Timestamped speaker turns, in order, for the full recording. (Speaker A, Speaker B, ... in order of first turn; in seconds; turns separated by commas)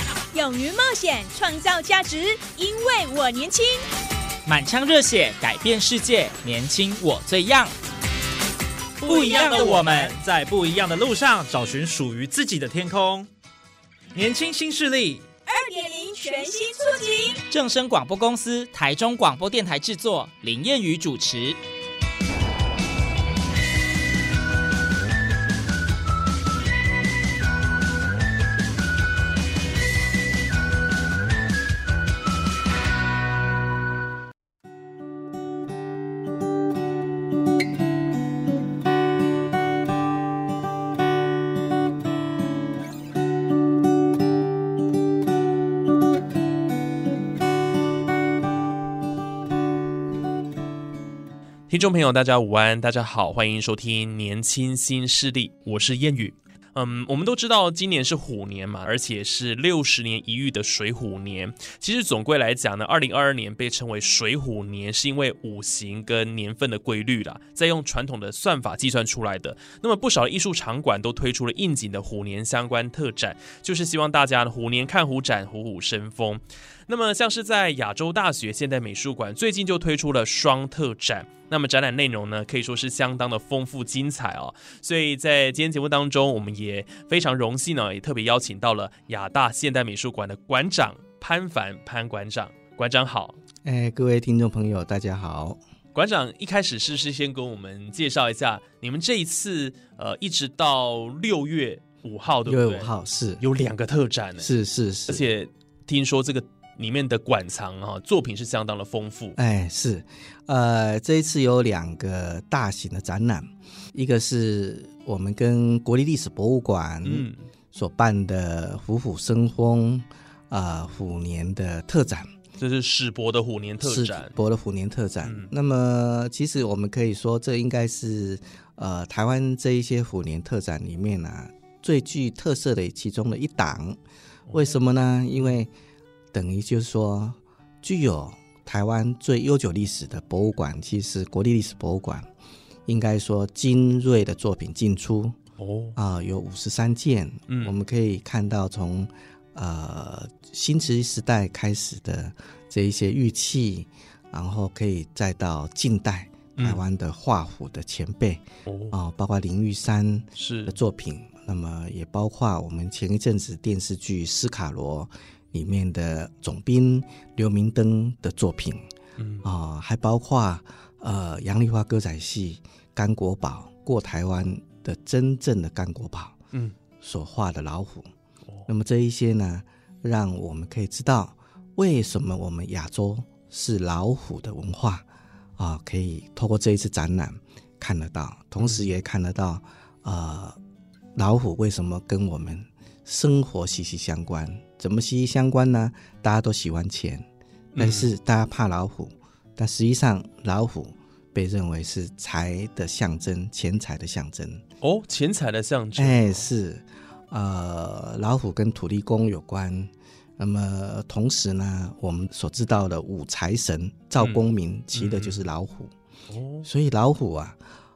Speaker A: 0.3-3.9, Speaker B: 4.5-7.7, Speaker C: 9.0-13.3, Speaker B: 9.1-10.2, Speaker C: 14.2-15.2, Speaker A: 15.5-17.4, Speaker B: 17.5-21.6, Speaker D: 51.7-93.4, Speaker E: 93.6-95.6, Speaker D: 96.0-104.5, Speaker E: 102.5-103.7, Speaker E: 104.4-105.2, Speaker D: 105.1-109.4, Speaker E: 109.4-122.3, Speaker D: 117.0-117.5, Speaker D: 122.6-124.4, Speaker E: 123.8-134.0, Speaker D: 125.2-125.5, Speaker D: 134.5-134.8, Speaker E: 134.5-135.7, Speaker E: 136.3-142.3, Speaker E: 142.9-145.4, Speaker D: 145.6-146.0, Speaker E: 146.0-168.8, Speaker D: 147.5-147.8, Speaker D: 156.6-156.8, Speaker D: 158.7-159.0, Speaker D: 160.3-160.8, Speaker D: 169.2-169.5, Speaker E: 169.4-176.4, Speaker E: 177.0-178.1, Speaker E: 178.7-185.1, Speaker E: 185.6-190.6, Speaker D: 188.6-188.9, Speaker E: 191.2-197.2, Speaker D: 197.7-198.1, Speaker E: 197.8-204.6, Speaker D: 204.8-206.5, Speaker E: 206.0-215.9, Speaker D: 214.2-215.4, Speaker D: 216.3-216.7, Speaker E: 216.7-217.6